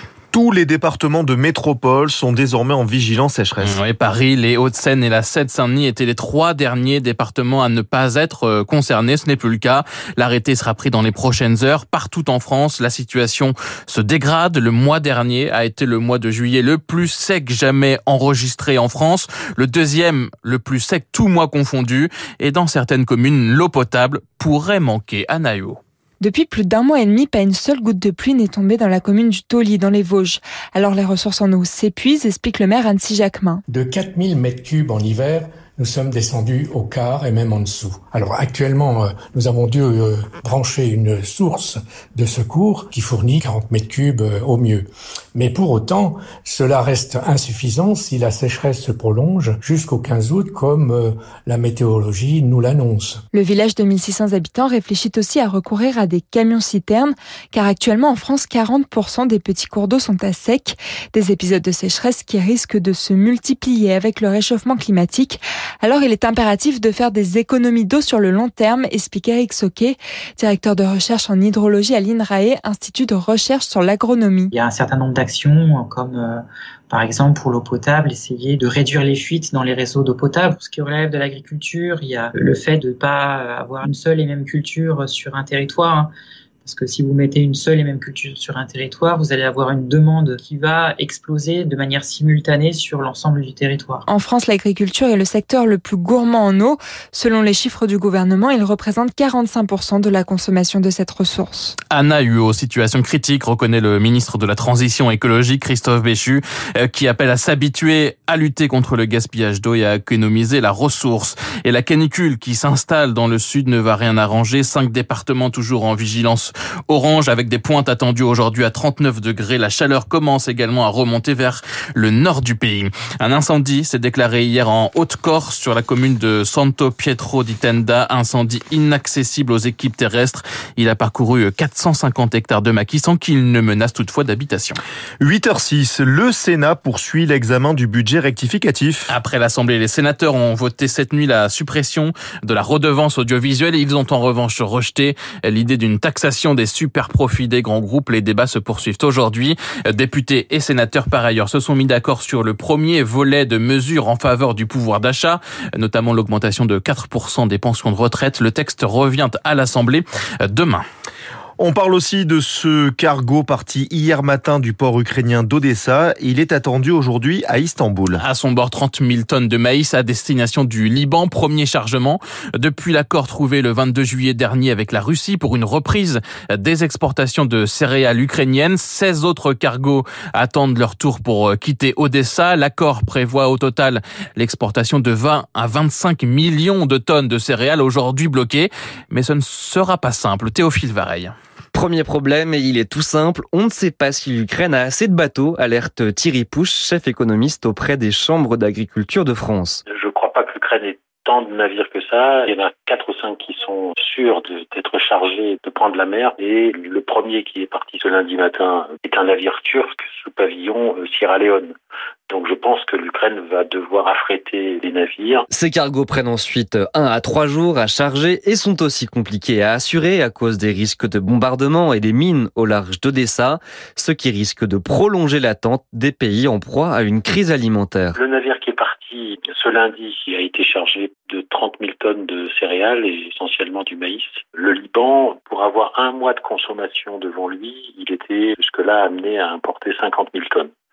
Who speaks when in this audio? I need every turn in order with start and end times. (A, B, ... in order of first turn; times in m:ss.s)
0:00.3-0:03.8 A
0:03.6-0:25.8 B
0:26.2-0:33.6 C
0:33.7-0:53.2 D
0:53.3-1:14.5 C
1:14.5-1:26.1 E
1:26.6-1:34.0 E
1:34.1-1:41.8 C
1:41.9-2:14.8 B
2:15.2-2:19.1 A
2:19.1-2:40.8 B
2:41.6-2:48.2 A
2:48.1-3:11.3 B
3:11.7-3:19.8 F
3:20.0-3:31.7 G
3:32.3-3:35.4 G
3:35.5-3:48.2 F
3:48.2-4:00.7 G